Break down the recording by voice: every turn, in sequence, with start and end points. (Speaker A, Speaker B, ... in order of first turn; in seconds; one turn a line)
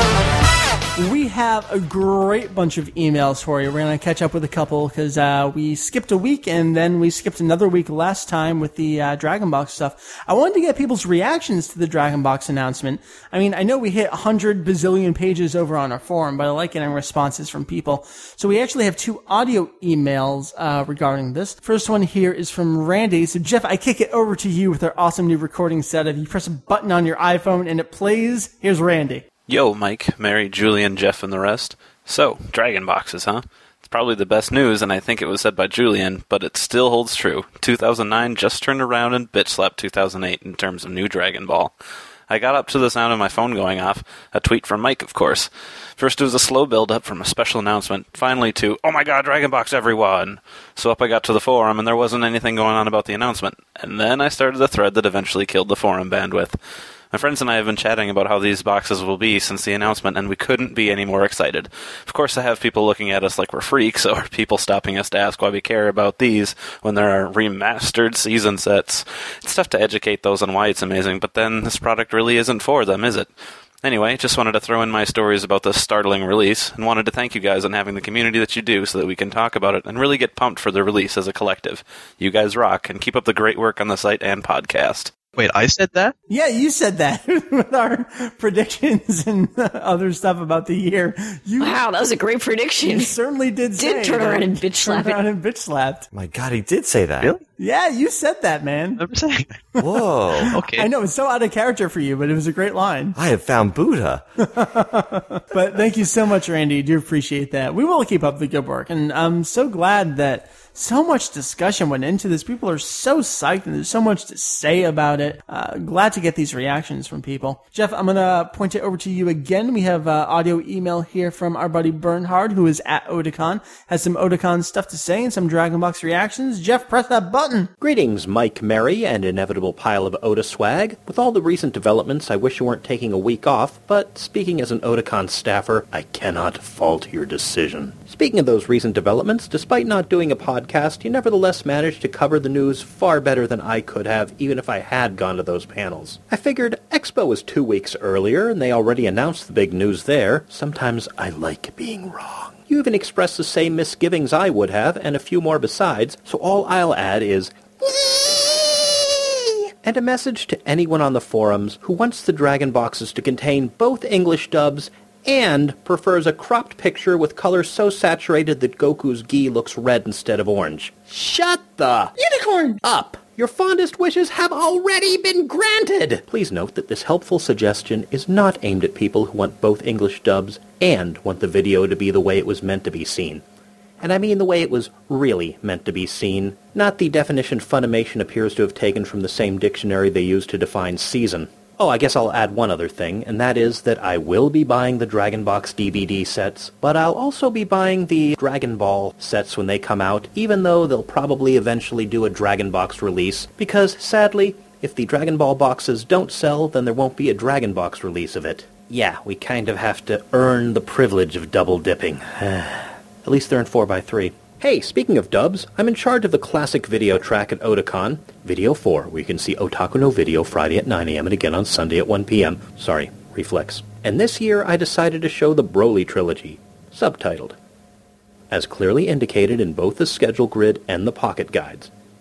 Speaker A: 1.0-29.2
Speaker B: 29.5-41.7
Speaker B: 42.3-56.6
Speaker B: 57.1-85.1
Speaker C: 85.4-86.2
Speaker A: 86.3-91.8
Speaker D: 91.6-93.1
Speaker A: 92.8-96.1
Speaker D: 93.8-95.2
Speaker E: 96.1-97.3
Speaker A: 97.6-99.0
Speaker C: 99.0-99.7
Speaker E: 99.8-100.6
Speaker A: 100.3-103.2
Speaker C: 100.5-100.9
Speaker E: 103.2-104.2
Speaker A: 104.4-127.7
Speaker F: 127.8-183.4
Speaker A: 172.5-172.8
Speaker F: 184.0-227.6
Speaker F: 228.5-231.9